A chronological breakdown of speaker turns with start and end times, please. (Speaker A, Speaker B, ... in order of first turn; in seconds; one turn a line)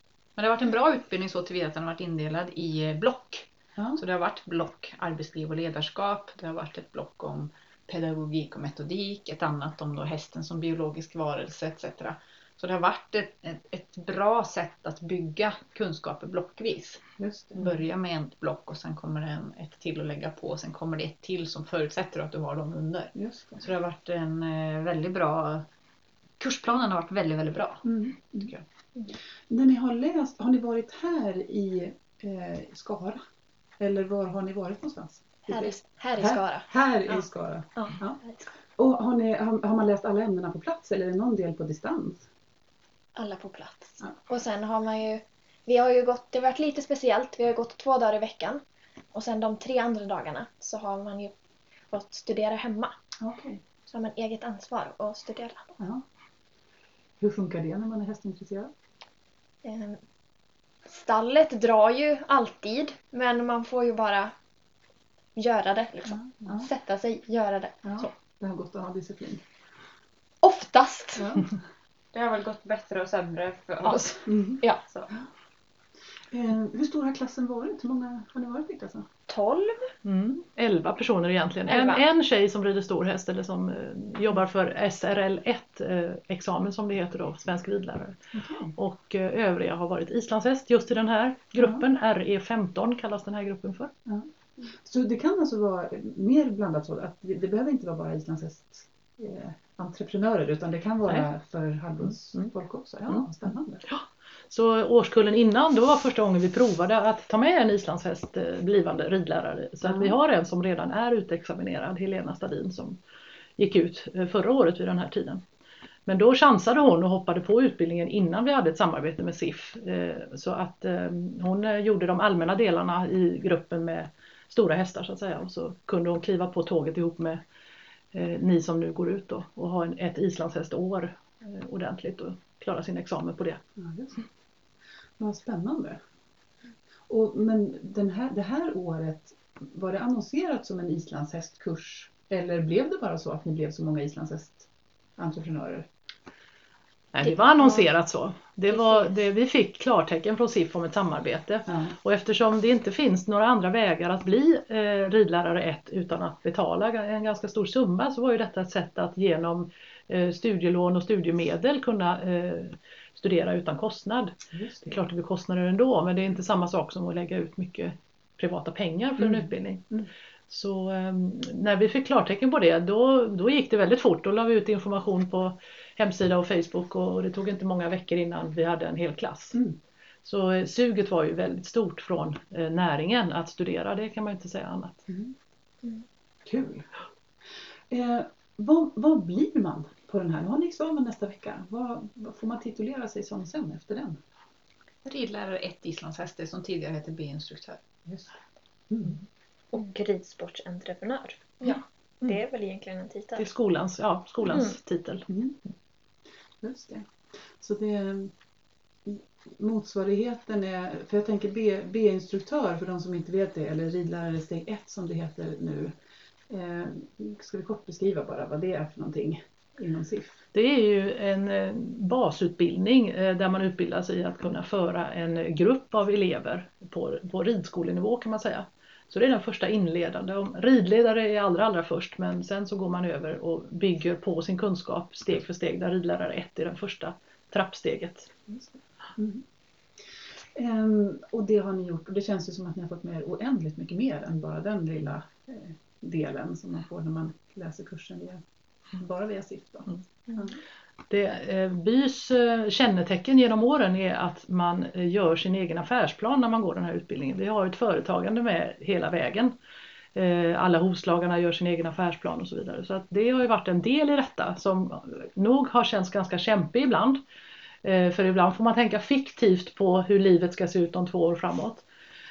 Speaker A: 0.4-17.0
Speaker B: 3.8-4.0
Speaker B: 17.2-17.7
Speaker A: 17.5-25.6
Speaker B: 23.1-23.7
Speaker A: 26.4-27.8
Speaker B: 27.8-28.5
Speaker B: 29.5-33.2
Speaker B: 33.8-38.2
Speaker C: 35.5-37.2
Speaker B: 38.8-42.2
Speaker C: 43.1-48.6
Speaker C: 49.1-51.3
Speaker C: 51.9-52.9
Speaker B: 53.2-53.6
Speaker C: 53.9-55.7
Speaker B: 55.8-56.0
Speaker B: 57.2-58.7
Speaker C: 59.6-60.0
Speaker C: 60.9-64.3
Speaker C: 65.3-68.1
Speaker B: 66.1-66.7
Speaker B: 67.8-69.4
Speaker C: 70.4-71.4
Speaker B: 71.2-71.4
Speaker D: 72.1-75.1
Speaker B: 74.2-74.6
Speaker B: 76.3-79.1
Speaker C: 79.3-79.8
Speaker E: 80.0-88.2
Speaker B: 88.3-88.7
Speaker E: 88.8-93.9
Speaker B: 94.1-103.8
Speaker E: 103.9-113.0
Speaker B: 109.8-110.2
Speaker E: 113.6-115.4
Speaker E: 116.1-127.4
Speaker E: 128.1-133.6
Speaker B: 133.8-134.2
Speaker B: 135.2-136.0
Speaker B: 137.1-145.9
Speaker E: 147.1-164.3
Speaker B: 151.7-151.9
Speaker B: 164.5-165.0
Speaker E: 164.9-169.9
Speaker B: 169.2-170.1
Speaker E: 170.5-179.6
Speaker E: 180.2-185.0
Speaker B: 185.1-185.3
Speaker B: 186.5-186.8
Speaker B: 187.9-194.2
Speaker A: 195.0-197.8
Speaker B: 198.1-198.3
Speaker B: 198.9-199.2
Speaker F: 199.7-203.5
Speaker E: 203.3-205.2
Speaker F: 204.4-204.7
Speaker B: 205.3-205.6
Speaker B: 206.6-207.1
Speaker B: 207.6-208.3
Speaker B: 209.0-215.9
Speaker B: 216.5-220.4
Speaker E: 220.5-238.4
Speaker B: 238.5-239.4
Speaker B: 240.5-248.4
Speaker B: 248.9-250.6
Speaker E: 251.1-259.5
Speaker E: 260.1-267.2
Speaker E: 267.8-271.8